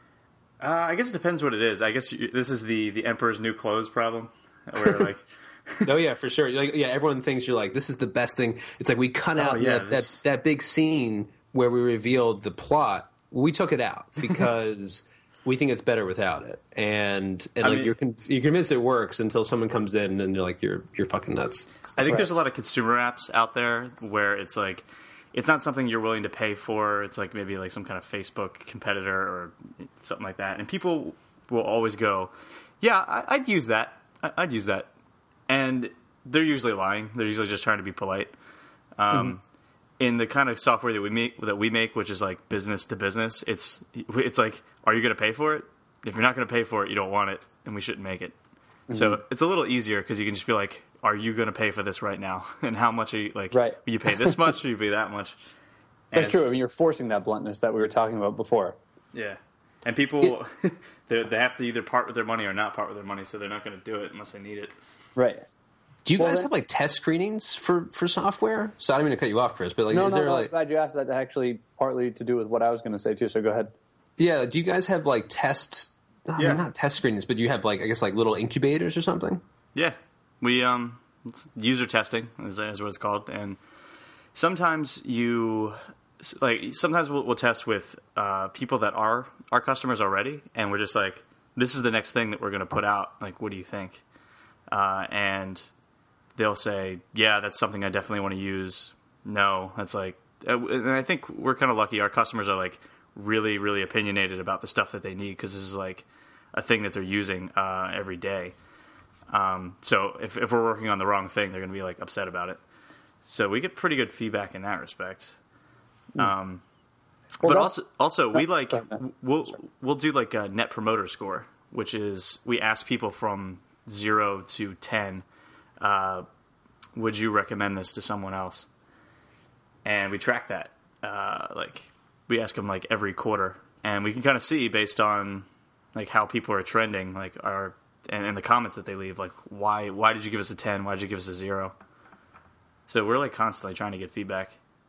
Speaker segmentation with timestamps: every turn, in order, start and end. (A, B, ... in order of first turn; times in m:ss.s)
0:00.6-0:05.9 A
0:05.8-0:21.7 B
0:09.4-0:10.2 A
0:17.6-0:17.9 A
0:22.0-0:34.9 A
0:35.5-0:38.3 A
0:39.0-0:39.4 A
0:40.0-0:48.4 A
0:48.9-0:49.2 C
0:48.9-0:55.4 A
0:53.5-0:54.5 C
0:56.1-0:56.5 A
0:56.1-0:58.8 C
0:59.1-1:04.7 A
1:05.2-1:05.5 C
1:06.0-1:10.5 B
1:06.2-1:06.5 C
1:09.9-1:13.7 C
1:14.2-1:19.4 B
1:19.8-1:23.6 A
1:24.4-1:34.0 A
1:34.7-1:35.7 A
1:36.4-1:48.6 A
1:49.3-1:52.6 A
1:53.2-1:55.4 A
1:56.2-1:56.6 A
1:57.4-2:05.2 A
1:57.4-1:57.7 C
1:58.3-1:59.0 C
2:05.8-2:06.3 A
2:07.0-2:08.7 A
2:09.8-2:21.7 A
2:22.9-2:24.6 A